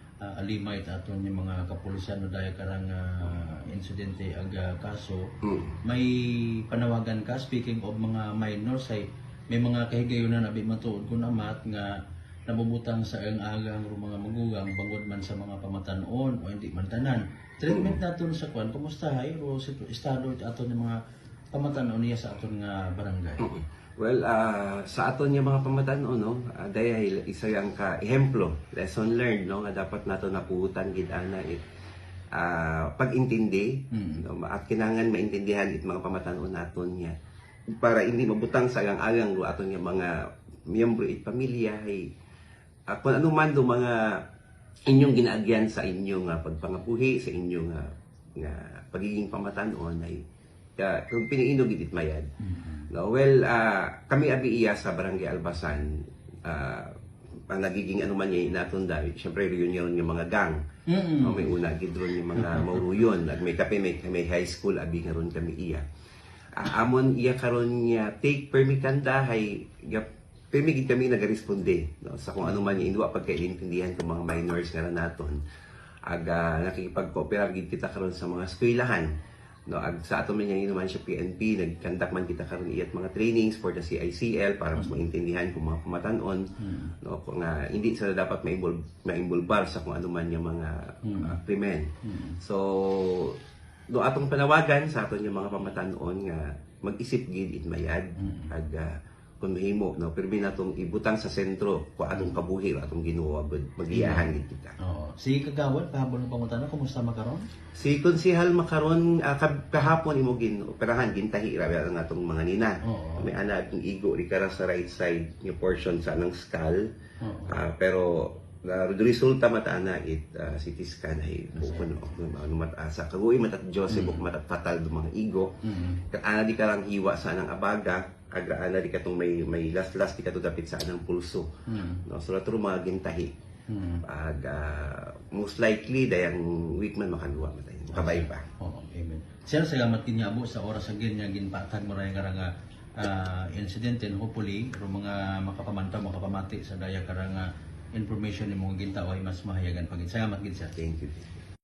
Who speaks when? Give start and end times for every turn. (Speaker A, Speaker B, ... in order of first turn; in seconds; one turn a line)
Speaker A: 0.2-21.0
Speaker B: 5.4-5.8
Speaker B: 17.7-18.0
Speaker A: 21.5-23.5
Speaker B: 23.4-31.6
Speaker B: 32.3-37.1
Speaker A: 33.9-34.3
Speaker B: 37.7-42.1
Speaker B: 42.9-44.2
Speaker B: 44.9-50.2
Speaker B: 50.8-52.3
Speaker A: 52.5-52.9
Speaker B: 52.9-56.9
Speaker B: 57.5-60.6
Speaker A: 60.9-61.5
Speaker B: 61.2-65.8
Speaker A: 62.4-62.9
Speaker B: 66.6-75.4
Speaker B: 76.1-79.1
Speaker B: 79.7-93.4
Speaker A: 86.6-86.9
Speaker A: 91.0-91.4
Speaker A: 92.0-92.4
Speaker B: 93.9-104.8
Speaker A: 98.2-98.5
Speaker A: 103.9-104.3
Speaker A: 104.8-107.5
Speaker B: 107.8-116.9
Speaker A: 112.8-113.3
Speaker A: 117.2-117.6
Speaker B: 117.5-125.5
Speaker A: 121.5-122.0
Speaker A: 123.9-124.2
Speaker A: 125.7-126.0
Speaker B: 126.1-131.5
Speaker A: 131.7-132.0
Speaker B: 132.1-133.3
Speaker A: 133.7-134.0
Speaker B: 134.0-138.5
Speaker A: 137.9-151.3